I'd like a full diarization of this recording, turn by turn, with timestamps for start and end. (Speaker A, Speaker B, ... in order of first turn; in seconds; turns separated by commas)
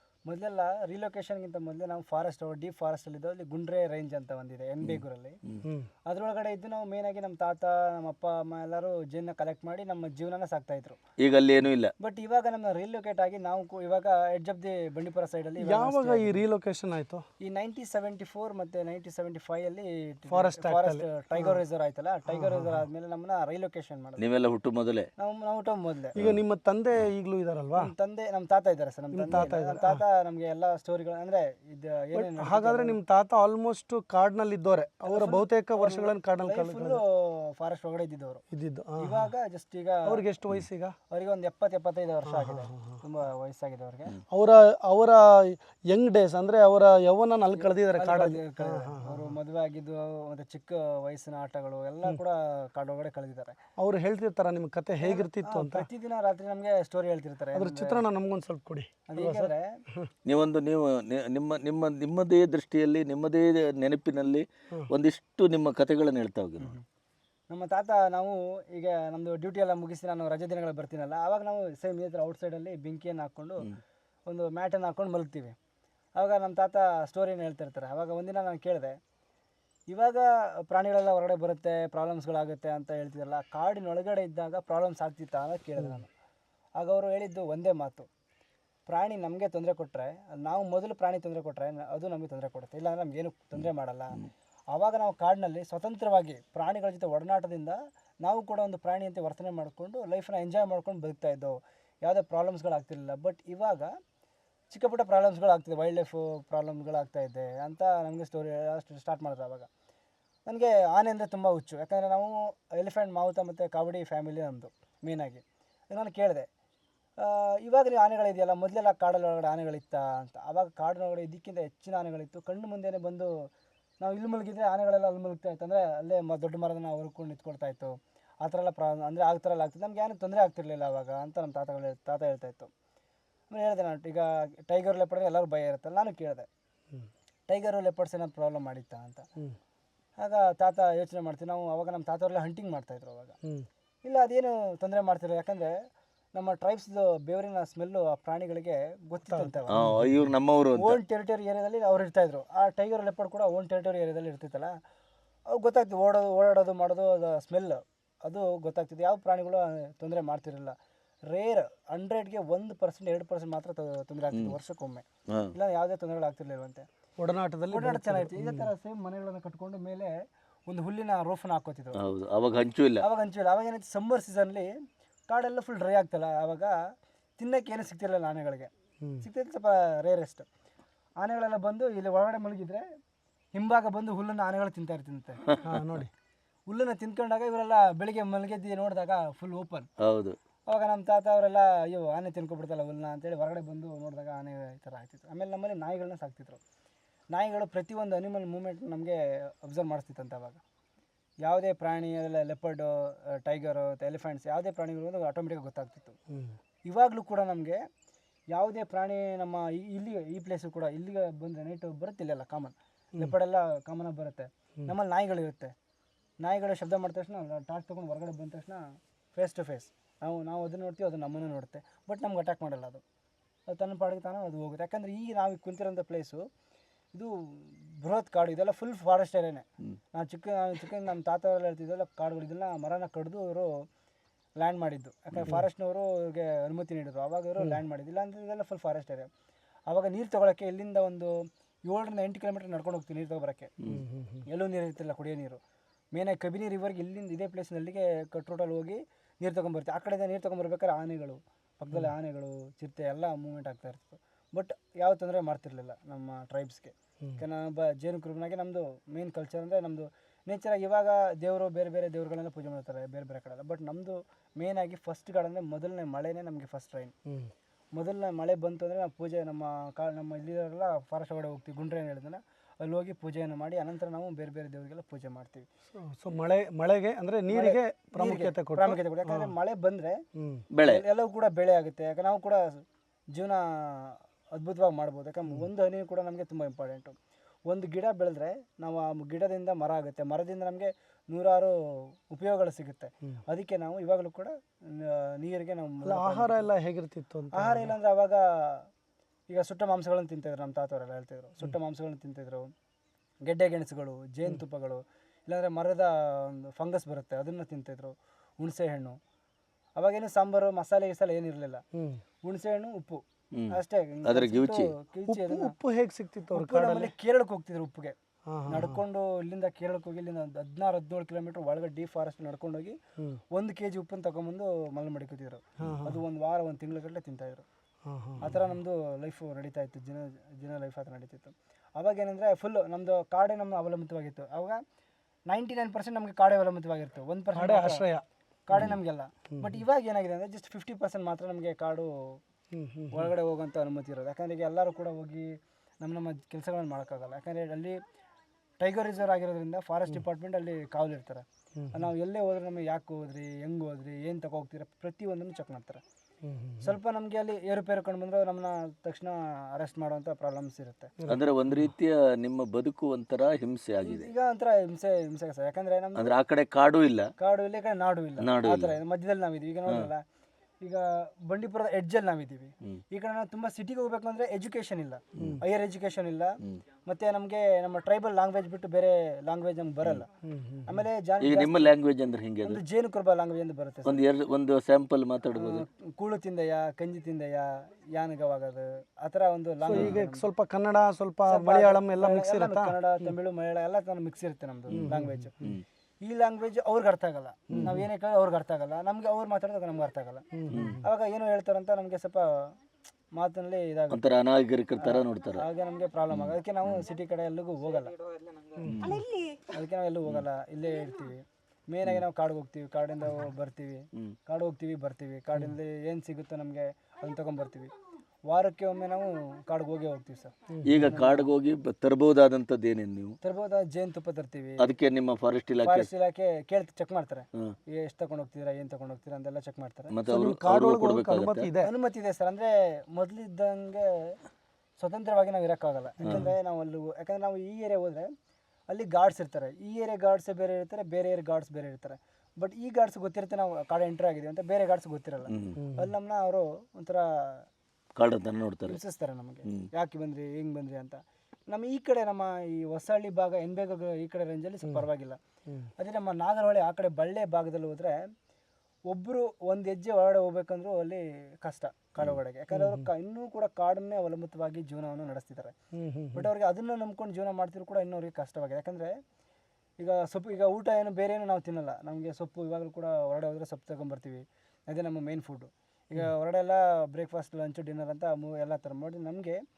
Speaker A: 0.3-5.4, Speaker A: 6.1-11.0, Speaker B: 11.2-11.9, Speaker A: 12.0-16.4, Speaker C: 15.6-17.2, Speaker A: 17.4-24.2, Speaker C: 20.3-21.6, Speaker C: 22.3-22.9, Speaker B: 24.2-25.1, Speaker A: 25.2-26.1, Speaker C: 26.2-27.9, Speaker A: 27.8-33.0, Speaker C: 29.1-30.0, Speaker C: 32.1-37.0, Speaker A: 35.1-38.4, Speaker C: 38.5-39.3, Speaker A: 39.0-40.2, Speaker C: 40.1-41.0, Speaker A: 41.1-44.2, Speaker C: 42.3-43.0, Speaker C: 44.3-49.4, Speaker A: 47.6-53.6, Speaker C: 53.8-55.9, Speaker A: 55.0-58.0, Speaker C: 57.5-60.1, Speaker A: 59.1-59.7, Speaker B: 60.3-66.8, Speaker A: 67.5-73.7, Speaker A: 74.3-75.6, Speaker A: 76.2-79.0, Speaker A: 79.9-86.1, Speaker A: 86.8-88.1, Speaker A: 88.9-94.2, Speaker A: 94.7-103.9, Speaker A: 104.7-109.7, Speaker A: 110.5-116.5, Speaker A: 117.2-123.5, Speaker A: 124.0-132.7, Speaker A: 133.5-136.5, Speaker A: 137.5-139.3, Speaker A: 140.2-143.4, Speaker A: 144.1-145.7, Speaker A: 146.3-149.8, Speaker C: 149.3-150.3, Speaker B: 149.7-151.0, Speaker A: 150.8-154.7, Speaker A: 155.5-160.8, Speaker A: 161.3-166.9, Speaker C: 167.2-168.7, Speaker A: 167.7-170.1, Speaker A: 170.7-172.0, Speaker B: 172.0-173.0, Speaker A: 173.0-174.7, Speaker A: 175.3-176.8, Speaker A: 177.4-178.7, Speaker A: 179.2-180.5, Speaker A: 181.2-182.8, Speaker A: 183.6-185.5, Speaker C: 185.6-186.1, Speaker A: 186.7-189.9, Speaker B: 190.0-190.4, Speaker A: 190.7-196.6, Speaker A: 197.3-200.6, Speaker A: 201.4-206.2, Speaker C: 206.3-206.6, Speaker A: 206.9-207.8, Speaker A: 208.5-215.7, Speaker A: 216.4-218.8, Speaker A: 219.3-223.0, Speaker A: 223.7-226.4, Speaker A: 227.1-233.7, Speaker A: 234.6-239.3, Speaker A: 239.9-241.3, Speaker A: 241.9-243.7, Speaker C: 243.9-244.5, Speaker A: 244.5-245.6, Speaker A: 246.2-267.1, Speaker A: 267.9-275.7, Speaker C: 275.9-279.5, Speaker A: 277.5-280.2, Speaker C: 280.4-280.7, Speaker B: 280.7-281.0, Speaker A: 280.9-282.8, Speaker A: 283.3-287.1, Speaker A: 287.7-296.7, Speaker C: 296.1-297.9, Speaker A: 297.6-298.9, Speaker A: 299.5-302.7, Speaker A: 303.5-309.2, Speaker A: 310.0-311.8, Speaker C: 311.9-312.2, Speaker A: 312.4-315.8, Speaker B: 313.5-314.9, Speaker C: 315.3-317.1, Speaker A: 316.5-318.2, Speaker C: 318.5-319.0, Speaker A: 318.7-323.0, Speaker A: 323.5-327.6, Speaker C: 325.8-326.2, Speaker C: 328.1-328.8, Speaker A: 328.4-334.8, Speaker A: 335.5-338.1, Speaker C: 337.6-338.2, Speaker A: 338.7-342.4, Speaker C: 339.5-339.8, Speaker C: 342.7-343.3, Speaker A: 343.1-345.5, Speaker A: 346.0-348.0, Speaker A: 348.8-356.0, Speaker C: 351.8-352.1, Speaker C: 356.4-357.0, Speaker A: 356.8-361.1, Speaker C: 361.2-361.9, Speaker B: 361.3-364.3, Speaker A: 364.0-366.3, Speaker B: 366.2-367.3, Speaker A: 367.4-370.2, Speaker B: 368.4-368.9, Speaker A: 370.8-380.3, Speaker C: 380.4-381.1, Speaker A: 380.9-381.9, Speaker B: 381.4-382.8, Speaker A: 382.6-384.2, Speaker B: 384.1-385.8, Speaker A: 385.6-390.4, Speaker C: 389.8-393.3, Speaker B: 389.9-390.2, Speaker A: 391.5-395.6, Speaker B: 394.9-395.8, Speaker C: 394.9-395.7, Speaker A: 396.2-400.4, Speaker C: 397.7-398.1, Speaker C: 400.6-401.1, Speaker B: 400.7-401.0, Speaker A: 401.0-402.7, Speaker A: 403.4-404.4, Speaker B: 404.1-405.6, Speaker A: 405.0-408.2, Speaker B: 406.3-407.0, Speaker B: 408.9-409.3, Speaker A: 409.1-417.9, Speaker A: 418.5-421.4, Speaker C: 420.7-421.2, Speaker B: 420.9-423.4, Speaker A: 423.4-424.9, Speaker B: 424.8-426.1, Speaker A: 425.8-430.1, Speaker B: 430.1-431.7, Speaker C: 430.3-431.9, Speaker A: 431.8-434.4, Speaker A: 435.0-438.3, Speaker C: 436.2-436.5, Speaker A: 438.9-447.7, Speaker B: 445.5-445.8, Speaker C: 445.8-446.1, Speaker B: 448.2-449.0, Speaker A: 448.9-455.4, Speaker A: 456.0-458.2, Speaker A: 459.1-465.8, Speaker C: 462.7-463.1, Speaker C: 465.9-466.5, Speaker A: 466.4-469.1, Speaker A: 470.0-479.6